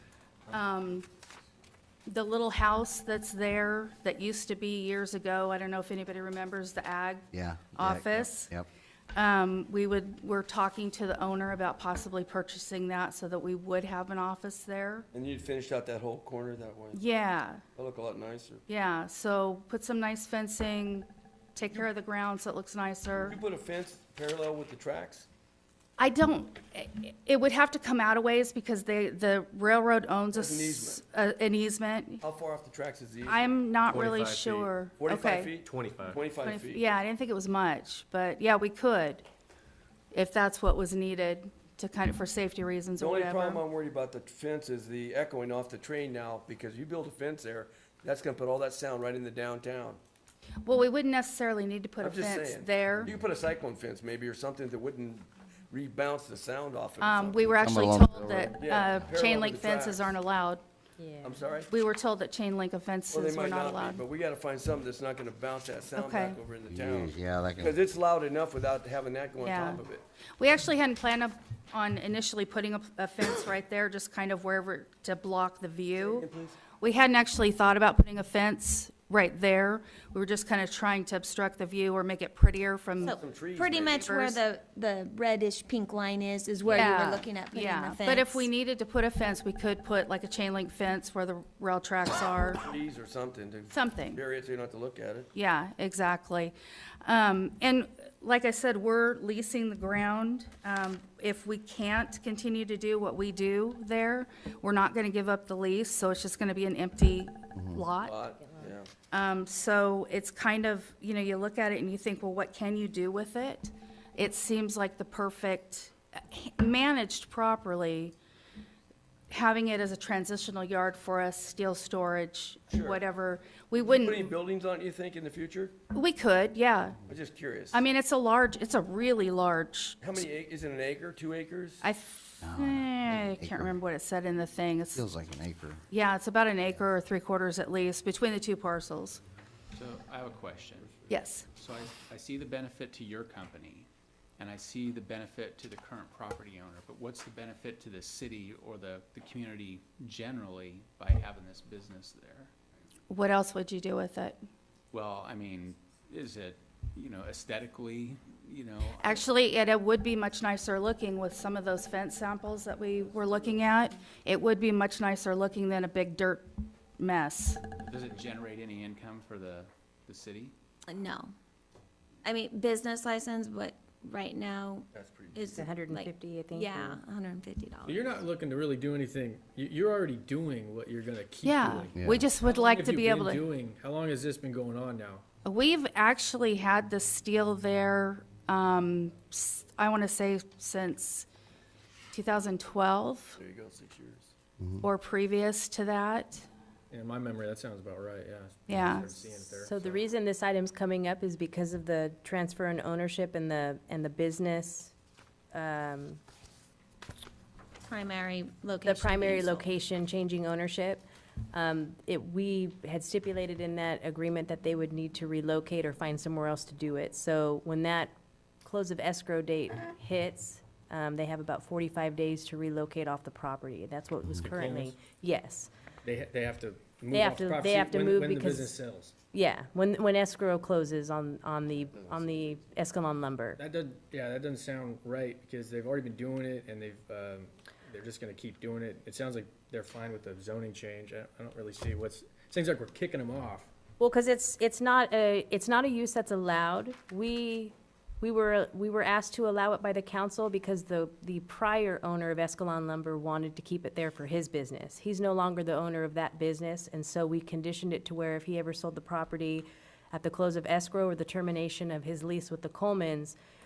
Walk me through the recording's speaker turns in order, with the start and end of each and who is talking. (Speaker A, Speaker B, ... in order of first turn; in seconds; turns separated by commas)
Speaker A: 0.5-1.1, Speaker A: 2.1-8.5, Speaker B: 7.3-8.7, Speaker A: 9.1-15.1, Speaker C: 15.1-17.0, Speaker A: 16.9-17.6, Speaker C: 17.7-18.6, Speaker A: 18.7-23.4, Speaker C: 23.1-25.3, Speaker A: 26.0-32.2, Speaker C: 30.3-31.0, Speaker C: 32.2-33.5, Speaker A: 33.3-35.5, Speaker C: 34.9-36.8, Speaker D: 35.8-36.1, Speaker A: 36.4-39.2, Speaker A: 40.1-43.6, Speaker C: 43.0-50.0, Speaker A: 50.6-53.1, Speaker C: 52.0-57.6, Speaker A: 57.0-60.6, Speaker B: 57.5-58.5, Speaker C: 58.5-60.1, Speaker E: 61.0-61.4, Speaker C: 61.2-61.7, Speaker A: 61.7-64.0, Speaker C: 63.1-70.0, Speaker A: 66.0-66.4, Speaker B: 66.7-67.7, Speaker A: 69.4-69.8, Speaker A: 70.4-76.2, Speaker C: 76.0-76.6, Speaker A: 76.8-83.2, Speaker F: 83.0-88.5, Speaker C: 83.1-84.1, Speaker A: 83.9-84.4, Speaker A: 86.7-92.6, Speaker C: 92.6-95.3, Speaker A: 93.7-94.2, Speaker A: 95.3-108.1, Speaker B: 107.5-107.8, Speaker C: 108.0-108.9, Speaker A: 109.1-118.1, Speaker A: 119.3-124.3, Speaker C: 122.7-123.0, Speaker C: 123.8-125.8, Speaker A: 125.9-127.0, Speaker C: 127.1-127.8, Speaker A: 127.7-130.0, Speaker C: 130.0-131.8, Speaker A: 131.8-135.1, Speaker B: 132.4-133.8, Speaker B: 134.9-135.8, Speaker A: 135.9-139.2, Speaker G: 139.7-141.0, Speaker A: 141.1-141.4, Speaker G: 141.6-152.5, Speaker A: 153.1-154.4, Speaker G: 154.9-159.2, Speaker A: 159.0-167.6, Speaker G: 167.8-170.5, Speaker F: 170.9-171.3, Speaker F: 172.2-178.2, Speaker C: 174.9-175.6, Speaker E: 175.5-177.0, Speaker D: 177.8-185.2, Speaker A: 181.4-183.4, Speaker B: 181.9-182.3, Speaker A: 185.4-191.3, Speaker A: 192.1-193.4, Speaker C: 193.4-194.3, Speaker B: 194.6-194.8, Speaker A: 194.8-196.5, Speaker D: 196.9-200.0, Speaker A: 198.7-199.1, Speaker E: 199.6-204.9, Speaker E: 205.5-206.2, Speaker F: 207.8-209.7, Speaker E: 208.8-218.1, Speaker E: 218.6-225.7, Speaker D: 224.4-225.0, Speaker D: 226.0-229.1, Speaker E: 227.1-228.7, Speaker E: 229.3-233.6, Speaker C: 231.7-232.7, Speaker D: 233.6-243.7, Speaker E: 244.0-263.4